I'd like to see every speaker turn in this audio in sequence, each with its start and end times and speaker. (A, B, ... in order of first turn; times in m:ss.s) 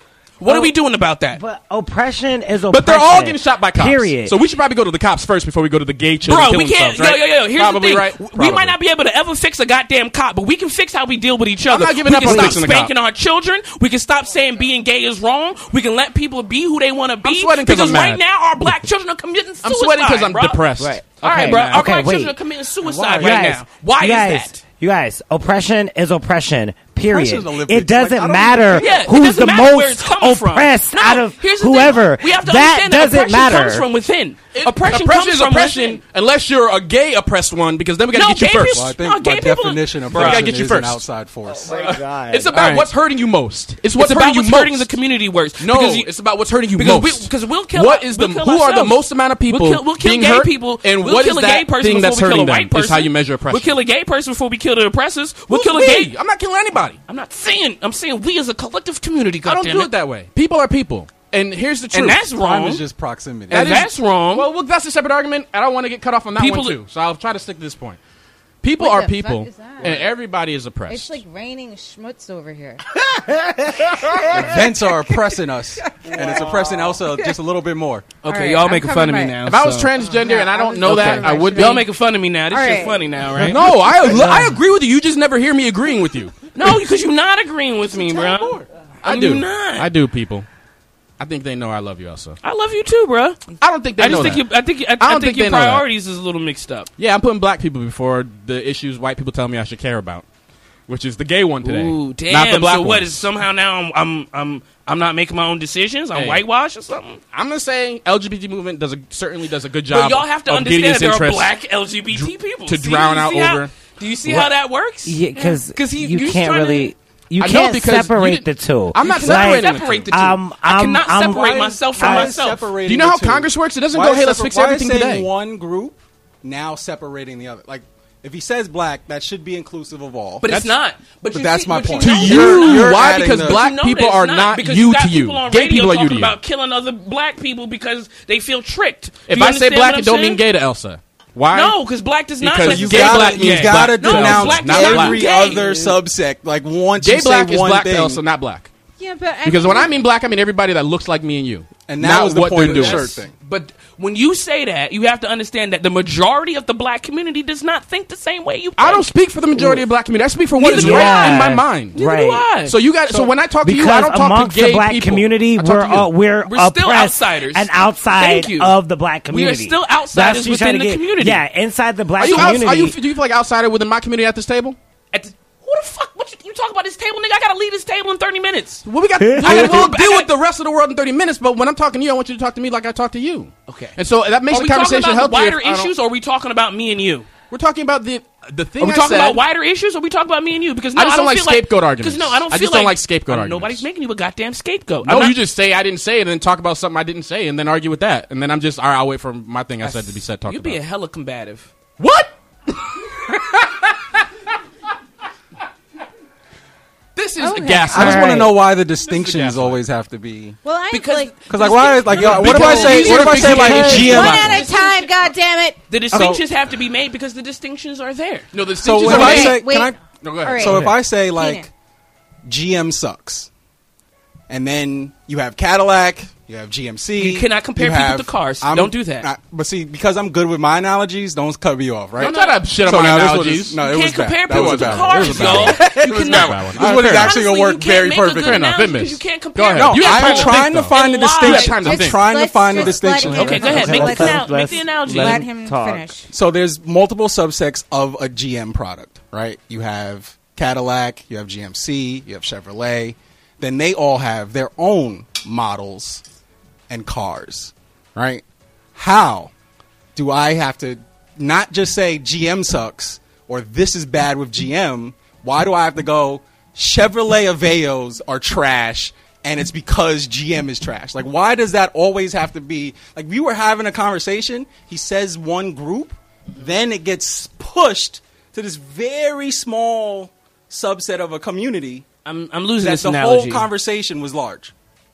0:00.4-0:01.4 A
0:00.4-0:00.7 B
0:01.3-0:04.4 B
0:02.7-0:08.8 C
0:06.2-0:20.6 A
0:11.7-0:12.9 C
0:12.2-0:12.6 B
0:17.2-0:18.2 C
0:19.6-0:21.9 C
0:20.8-0:22.4 B
0:21.2-0:24.6 A
0:22.8-0:23.4 D
0:23.2-0:33.9 B
0:27.0-0:29.0 D
0:28.7-0:36.0 A
0:34.5-0:38.9 C
0:38.1-0:40.5 A
0:38.7-0:41.9 D
0:40.1-0:41.1 C
0:41.5-0:42.8 B
0:41.8-0:44.9 C
0:42.5-0:42.9 A
0:44.0-0:56.1 A
0:45.6-0:53.8 C
0:55.5-0:57.0 C
0:57.1-0:59.9 A
0:59.4-1:02.3 C
1:01.9-1:02.8 A
1:02.3-1:03.8 D
1:03.5-1:04.5 A
1:03.5-1:08.0 C
1:06.4-1:06.8 A
1:08.6-1:11.2 C
1:08.8-1:10.1 E
1:10.9-1:12.8 E
1:13.1-1:14.5 B
1:14.3-1:18.1 D
1:18.2-1:19.9 A
1:18.2-1:19.4 E
1:19.4-1:21.9 C
1:20.0-1:21.9 E
1:20.8-1:24.2 A
1:22.5-1:23.0 E
1:23.4-1:24.6 B
1:23.4-1:26.5 C
1:26.6-1:29.9 A
1:28.1-1:30.5 C
1:31.2-1:32.4 C
1:32.4-1:36.9 A
1:33.6-1:34.4 C
1:35.0-1:35.8 C
1:37.0-1:40.3 C
1:40.9-1:43.2 C
1:41.6-1:47.2 A
1:46.1-1:46.4 C
1:47.3-1:51.5 C
1:49.9-1:56.9 A
1:52.1-1:53.7 C
1:55.0-2:02.4 B
1:57.4-2:00.1 C
1:59.0-2:02.7 A
2:01.4-2:10.5 D
2:02.8-2:05.3 C
2:10.4-2:20.4 A
2:10.5-2:10.8 C
2:11.3-2:13.6 D
2:11.9-2:16.4 C
2:19.3-2:21.8 C
2:21.5-2:26.0 A
2:22.4-2:25.6 C
2:22.6-2:28.2 D
2:27.0-2:28.7 C
2:29.0-2:30.0 E
2:29.4-2:33.2 C
2:31.9-2:33.3 D
2:32.6-2:39.1 A
2:38.8-2:42.0 C
2:39.6-2:39.8 B
2:40.6-2:42.8 A
2:40.6-2:42.5 B
2:42.6-2:46.1 C
2:43.1-2:53.0 B
2:46.4-2:48.7 A
2:49.3-2:51.4 A
2:52.2-2:54.8 C
2:52.3-2:52.6 A
2:55.1-2:58.8 A
2:58.8-3:05.9 C
2:59.2-2:59.9 B
2:59.4-3:00.3 A
3:03.7-3:04.0 A
3:04.5-3:07.3 A
3:07.5-3:09.4 C
3:08.8-3:15.4 A
3:11.0-3:13.8 C
3:15.0-3:20.8 C
3:19.8-3:21.7 A
3:22.0-3:23.9 C
3:27.2-3:29.8 C
3:27.4-3:28.3 E
3:27.9-3:30.6 D
3:30.6-3:31.8 E
3:30.9-3:35.1 A
3:31.5-3:34.6 D
3:32.1-3:34.7 C
3:32.7-3:33.3 E
3:33.9-3:35.8 E
3:35.9-3:38.5 A
3:36.1-3:36.4 D
3:38.5-3:41.0 C
3:38.8-3:41.7 D
3:39.0-3:41.7 E
3:39.1-3:39.3 A
3:42.5-3:43.5 D
3:44.5-3:58.7 D
3:47.2-3:49.3 A
3:52.2-3:53.8 C
3:52.2-3:53.2 A
3:53.7-4:02.0 A
3:54.4-3:57.4 C
3:58.2-4:02.3 C
3:59.7-4:03.8 D
4:01.9-4:06.3 E
4:03.2-4:05.5 A
4:03.2-4:06.1 B
4:03.5-4:04.0 C
4:06.3-4:16.2 D
4:16.9-4:18.4 D
4:19.0-4:19.5 D
4:20.2-4:42.0 D
4:42.3-4:43.7 A
4:42.8-4:44.7 D